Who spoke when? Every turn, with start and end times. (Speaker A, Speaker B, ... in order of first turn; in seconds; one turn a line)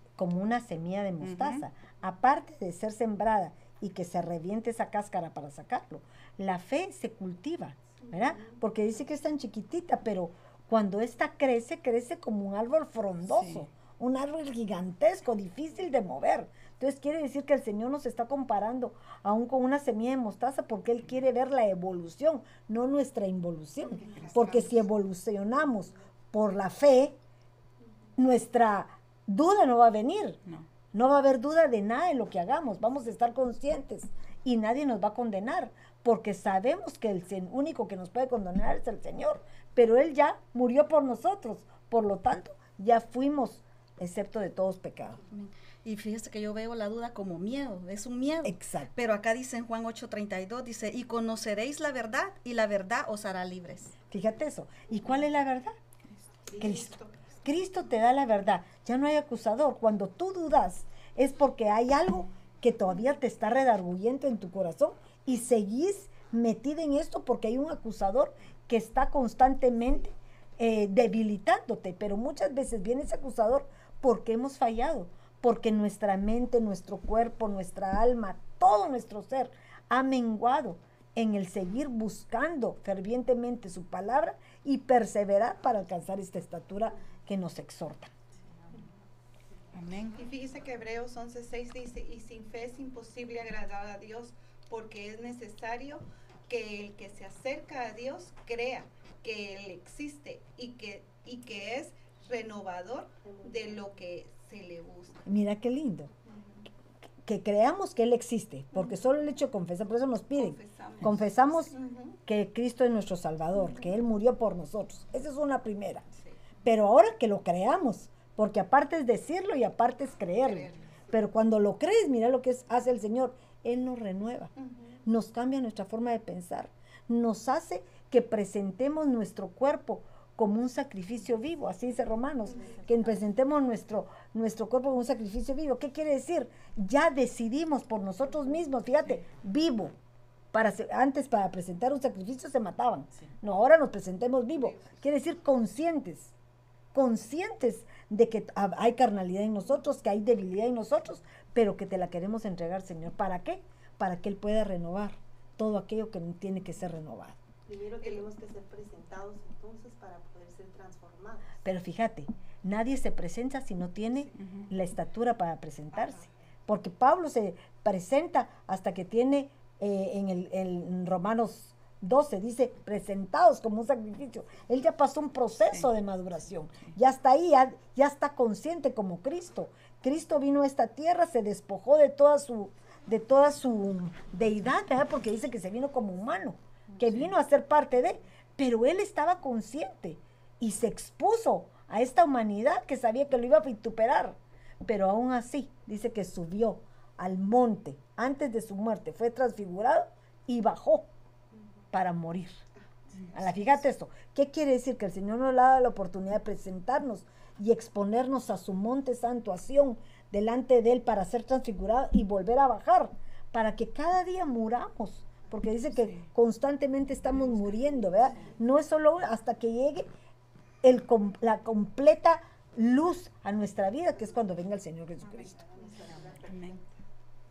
Speaker A: 0.2-27.2
Speaker B: 1.2-1.6
Speaker B: 13.3-13.7
Speaker C: 24.2-24.7
Speaker A: 28.2-30.4
Speaker A: 30.9-45.2
Speaker D: 45.3-54.0
Speaker A: 48.5-48.9
Speaker A: 54.1-55.8
Speaker C: 56.5-57.4
Speaker A: 56.6-88.1
Speaker B: 89.7-90.2
Speaker C: 90.2-105.2
Speaker E: 103.2-103.8
Speaker A: 105.3-106.1
Speaker C: 106.3-106.6
Speaker A: 107.2-116.0
Speaker C: 110.4-112.2
Speaker A: 116.7-124.5
Speaker C: 120.4-120.9
Speaker C: 124.6-125.0
Speaker A: 125.0-139.9
Speaker C: 132.6-132.9
Speaker A: 140.5-146.3
Speaker C: 144.6-145.0
Speaker A: 146.9-157.4
Speaker E: 157.7-161.6
Speaker C: 158.0-158.3
Speaker A: 161.6-201.1
Speaker B: 164.4-164.7
Speaker A: 201.9-202.6
Speaker C: 203.3-203.8
Speaker A: 203.3-220.1
Speaker B: 216.0-216.2
Speaker A: 220.8-225.6
Speaker E: 225.6-226.8
Speaker B: 226.5-226.8